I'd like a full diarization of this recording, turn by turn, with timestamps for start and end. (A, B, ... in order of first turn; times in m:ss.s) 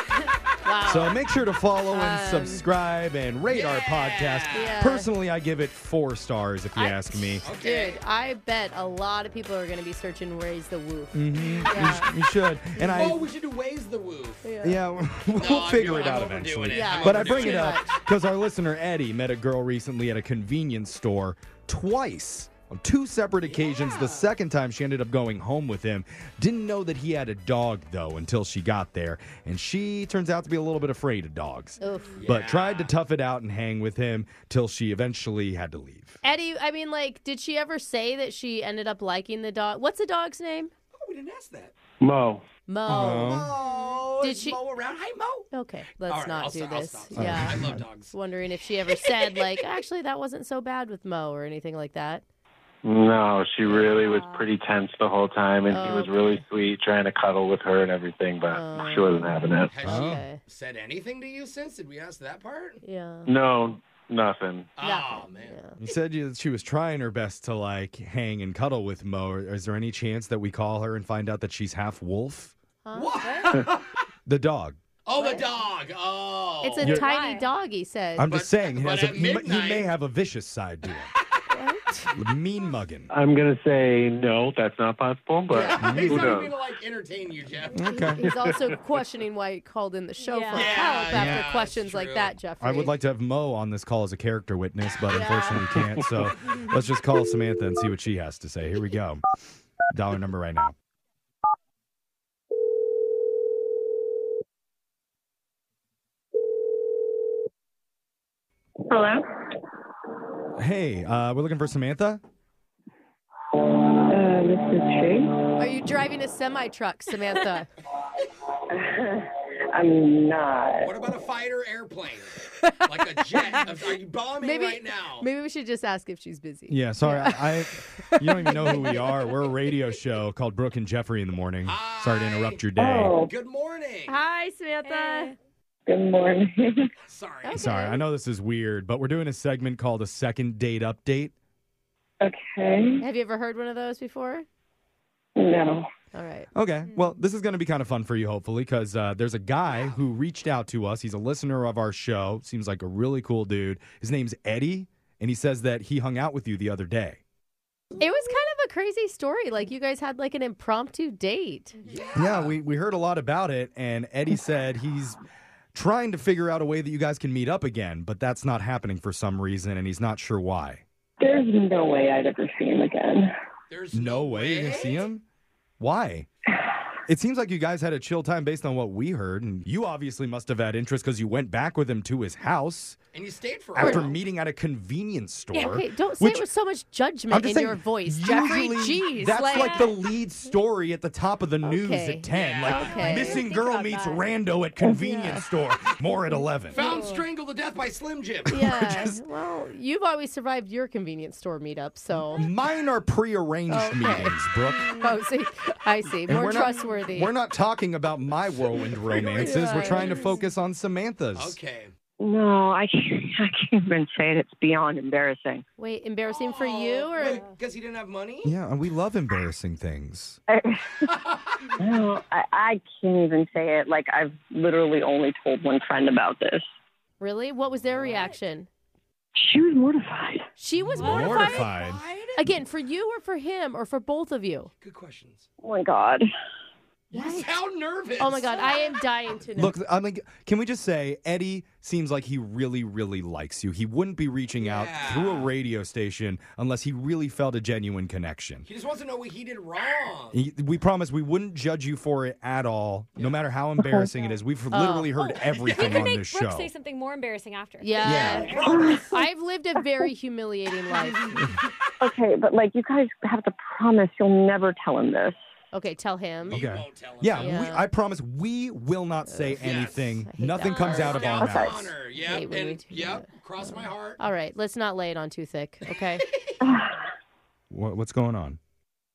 0:00.6-0:01.2 A
0:00.8-0:07.5 B
0:01.9-0:02.6 A
0:03.5-0:04.7 C
0:04.5-0:05.1 A
0:06.7-0:12.1 A
0:07.4-0:08.0 C
0:11.1-0:13.2 B
0:11.3-0:11.8 C
0:12.8-0:13.2 A
0:12.9-0:14.4 C
0:14.4-0:14.8 A
0:14.6-0:36.2 B
0:15.4-0:18.0 C
0:16.7-0:17.8 A
0:23.4-0:24.3 C
0:31.8-0:32.2 A
0:32.1-0:32.9 C
0:36.2-0:40.7 A
0:40.9-0:41.7 C
0:42.0-0:42.4 D
0:42.7-0:43.4 A
0:42.9-0:43.5 B
0:43.0-0:45.4 C
0:44.2-0:44.6 A
0:45.5-0:52.2 A
0:46.0-0:48.1 C
0:47.1-0:47.8 B
0:52.8-0:59.7 D
0:53.9-0:54.5 E
0:55.7-0:56.4 A
0:58.5-1:00.4 A
0:59.6-1:02.8 C
0:59.8-1:00.2 B
1:02.8-1:03.3 A
1:03.2-1:04.7 D
1:04.8-1:05.5 C
1:04.8-1:05.7 A
1:05.8-1:12.5 B
1:12.8-1:13.6 A
1:12.9-1:14.0 C
1:14.2-1:14.8 B
1:15.0-1:16.9 C
1:15.2-1:15.5 A
1:16.6-1:18.3 A
1:16.8-1:17.1 B
1:16.8-1:17.5 E
1:18.2-1:21.1 B
1:18.2-1:19.9 C
1:21.5-1:22.1 A
1:22.2-1:23.1 B
1:23.1-1:26.5 D
1:25.5-1:26.1 A
1:25.6-1:27.9 C
1:25.8-1:26.4 B
1:27.7-1:28.2 B
1:27.9-1:32.9 A
1:28.2-1:28.7 D
1:30.2-1:31.0 E
1:30.5-1:32.3 C
1:31.1-1:31.4 B
1:32.6-1:39.2 B
1:35.1-1:35.6 A
1:39.9-1:40.7 B
1:48.9-1:49.2 F
1:50.6-1:52.2 B
1:54.0-1:55.4 F
1:55.6-1:57.7 A
1:58.7-2:01.0 F
2:00.8-2:05.3 C
2:03.4-2:03.8 A
2:04.4-2:09.2 A
2:06.7-2:13.1 B
2:11.6-2:14.2 C
2:12.8-2:13.3 F
2:14.1-2:15.4 A
2:14.8-2:15.4 E
2:15.9-2:16.9 F
2:17.0-2:17.6 C
2:17.4-2:18.0 A
2:17.5-2:21.3 B
2:22.2-2:23.0 F
2:23.0-2:24.4 A
2:25.4-2:25.9 F
2:26.1-2:26.5 A
2:26.5-2:37.2 B
2:29.7-2:30.0 C
2:38.0-2:41.8 A
2:41.8-2:42.6 C
2:42.1-2:45.2 B
2:45.7-2:50.8 B
2:51.2-2:53.3 F
2:53.7-2:55.1 C
2:53.9-2:55.2 B
2:55.8-2:56.3 B
2:57.1-3:03.0 B
3:03.1-3:04.2 C
3:03.8-3:06.5 B
3:03.8-3:04.1 A
3:05.5-3:10.0 A
3:07.3-3:16.9 B
3:09.6-3:09.9 E
3:11.6-3:13.4 A
3:12.3-3:13.3 C
3:12.8-3:14.3 E
3:14.8-3:15.4 A
3:16.7-3:18.6 C
3:16.8-3:17.2 E
3:18.5-3:19.2 B
3:18.5-3:22.4 A
3:22.4-3:25.0 B
3:23.7-3:24.4 A
3:24.9-3:27.3 A
3:26.3-3:31.6 B
3:28.7-3:30.4 C
3:29.4-3:30.4 A
3:31.4-3:31.9 C
3:32.2-3:35.6 F
3:35.8-3:37.4 A
3:36.3-3:38.5 C
3:38.4-3:40.4 B
3:40.5-3:41.0 F
3:41.2-3:41.6 C
3:41.8-3:46.6 F
3:47.2-3:48.7 A
3:48.0-3:48.4 E
3:49.4-3:50.5 F
3:50.6-3:51.7 A
3:50.8-3:52.5 C
3:50.9-3:52.0 B
3:51.0-3:51.3 E
3:52.4-3:54.7 A
3:54.8-3:55.4 C
3:55.6-3:56.3 F
3:57.1-3:59.0 C
3:57.1-3:57.5 A
3:58.2-3:59.8 A
3:59.5-4:08.6 B
4:04.6-4:05.5 C
4:08.6-4:10.4 C
4:10.3-4:16.7 B
4:13.2-4:13.4 C
4:13.8-4:14.1 F
4:14.7-4:15.1 A
4:15.1-4:18.1 E
4:15.4-4:16.1 C
4:17.8-4:21.2 A
4:18.0-4:18.6 B
4:18.0-4:19.2 C
4:18.4-4:19.1 F
4:22.0-4:25.4 F
4:25.7-4:26.6 A
4:26.4-4:27.7 C
4:26.5-4:31.9 B
4:27.4-4:27.9 A
4:29.3-4:29.7 A
4:29.5-4:34.2 C
4:30.2-4:31.6 A
4:30.9-4:31.9 F
4:32.2-4:36.2 A
4:35.9-4:36.5 C
4:36.6-4:37.0 F
4:37.7-4:38.6 B